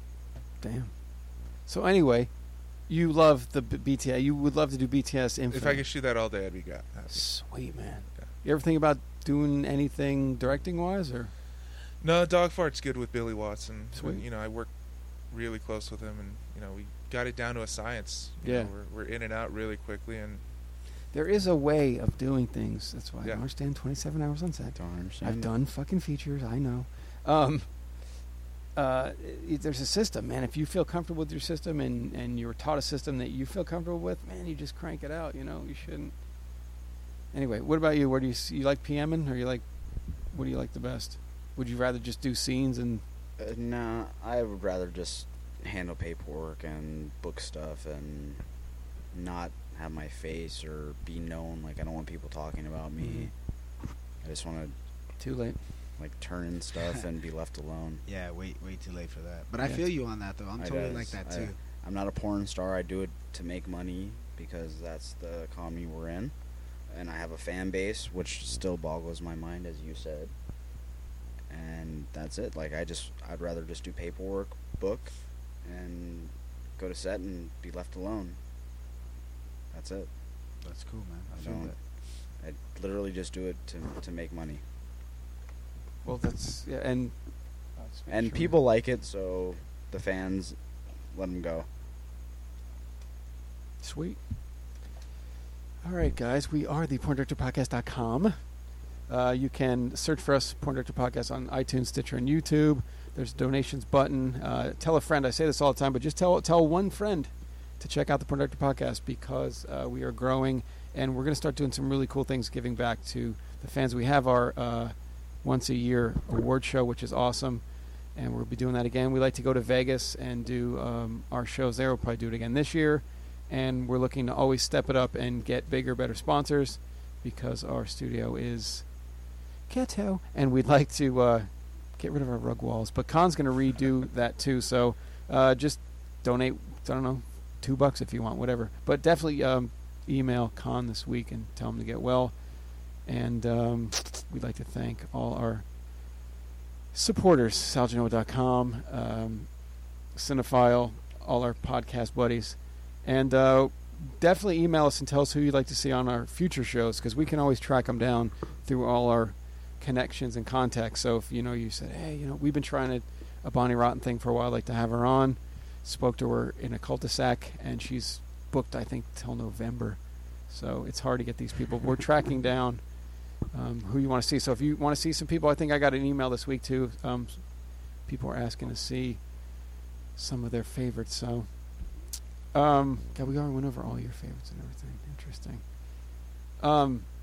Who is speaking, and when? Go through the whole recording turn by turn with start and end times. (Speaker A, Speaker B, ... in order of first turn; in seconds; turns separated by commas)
Speaker A: 0.6-0.9, Speaker A: 1.7-2.3, Speaker A: 2.9-5.8, Speaker B: 5.5-7.3, Speaker A: 7.1-11.3, Speaker B: 12.0-14.7, Speaker A: 13.9-14.2, Speaker B: 15.3-20.4, Speaker A: 18.4-18.7, Speaker A: 21.1-27.7, Speaker C: 24.8-25.5, Speaker A: 28.8-36.1, Speaker A: 37.3-39.6, Speaker A: 40.3-43.0, Speaker C: 43.4-48.4, Speaker C: 49.1-53.3, Speaker A: 53.0-53.3, Speaker C: 54.2-54.8, Speaker A: 55.2-55.6, Speaker C: 56.0-58.0, Speaker D: 58.1-61.6, Speaker C: 60.6-66.3, Speaker C: 66.9-70.3, Speaker C: 71.5-78.4, Speaker C: 79.7-80.1, Speaker D: 80.6-81.8, Speaker C: 81.3-81.7, Speaker C: 82.4-84.6, Speaker A: 86.0-87.1, Speaker A: 87.8-88.5, Speaker C: 88.1-90.6, Speaker C: 91.1-91.7, Speaker A: 93.8-94.2, Speaker A: 95.8-98.4, Speaker A: 99.1-117.6, Speaker A: 118.2-129.0, Speaker A: 129.7-142.4, Speaker A: 143.0-145.7, Speaker A: 146.9-149.6, Speaker A: 150.1-172.8, Speaker A: 173.5-179.4, Speaker A: 180.2-181.7, Speaker A: 182.5-185.6, Speaker A: 186.6-187.1